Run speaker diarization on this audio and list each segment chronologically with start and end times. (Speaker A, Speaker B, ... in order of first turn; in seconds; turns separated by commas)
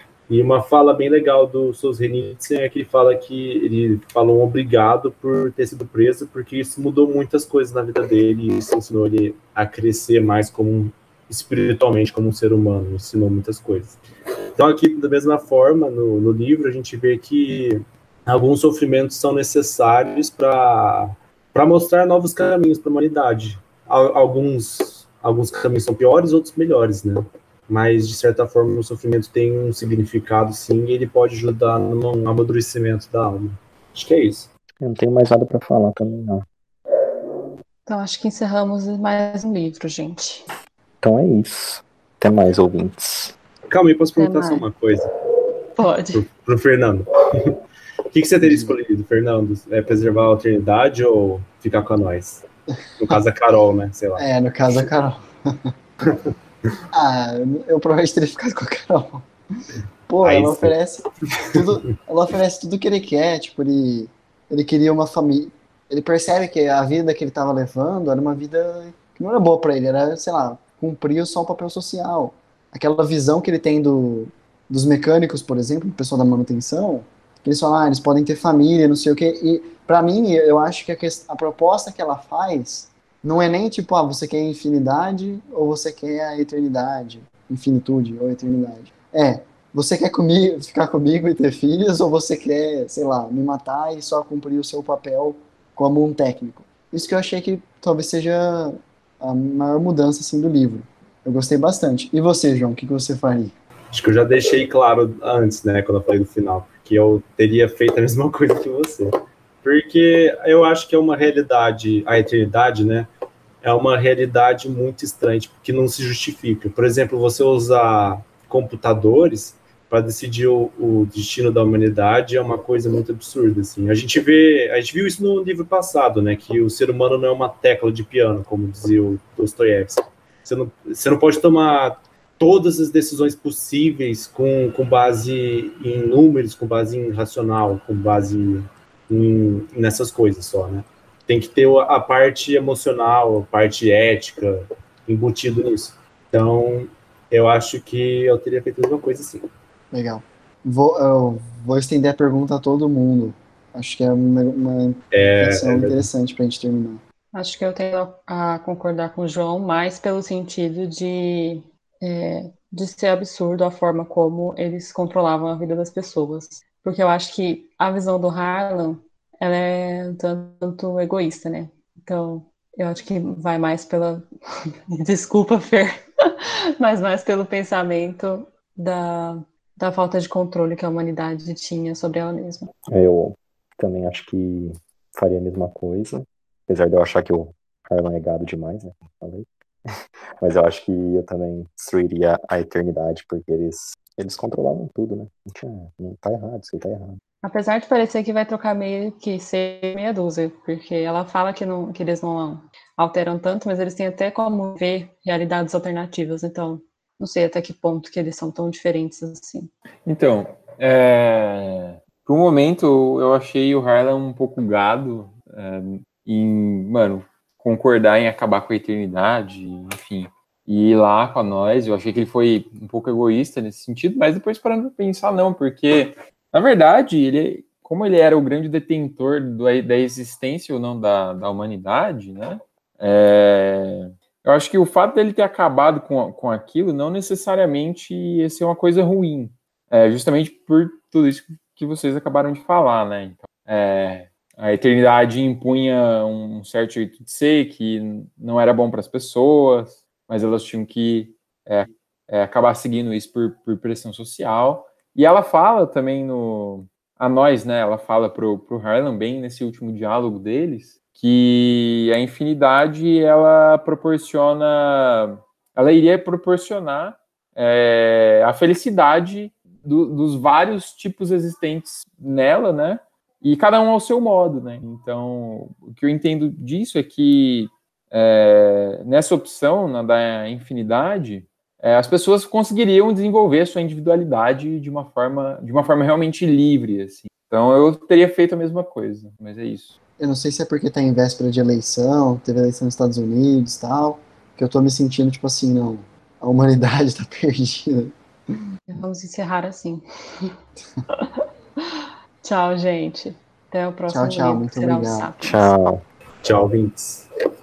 Speaker A: 0.3-14.0, Speaker A: 14.6-34.5, Speaker B: 34.8-36.4, Speaker C: 37.9-40.5, Speaker B: 41.0-43.3, Speaker A: 43.7-45.1, Speaker C: 44.2-44.6, Speaker C: 45.8-46.2, Speaker A: 46.1-47.5, Speaker A: 48.1-52.4, Speaker D: 48.4-48.7, Speaker A: 53.0-54.2, Speaker D: 54.2-55.7, Speaker D: 56.9-59.3, Speaker D: 60.1-103.5, Speaker A: 60.2-60.7, Speaker A: 61.3-61.6, Speaker A: 103.9-109.1, Speaker A: 109.6-113.1, Speaker A: 113.6-149.4, Speaker D: 149.9-157.0, Speaker A: 155.1-156.1, Speaker C: 157.3-174.2, Speaker C: 174.9-182.7, Speaker B: 182.9-189.5, Speaker B: 190.4-197.2, Speaker C: 197.4-209.7, Speaker E: 210.1-290.0, Speaker D: 290.2-298.1, Speaker C: 298.9-300.5, Speaker C: 301.1-301.4, Speaker C: 301.9-305.7, Speaker D: 304.1-305.3, Speaker B: 305.4-306.0, Speaker A: 306.4-307.2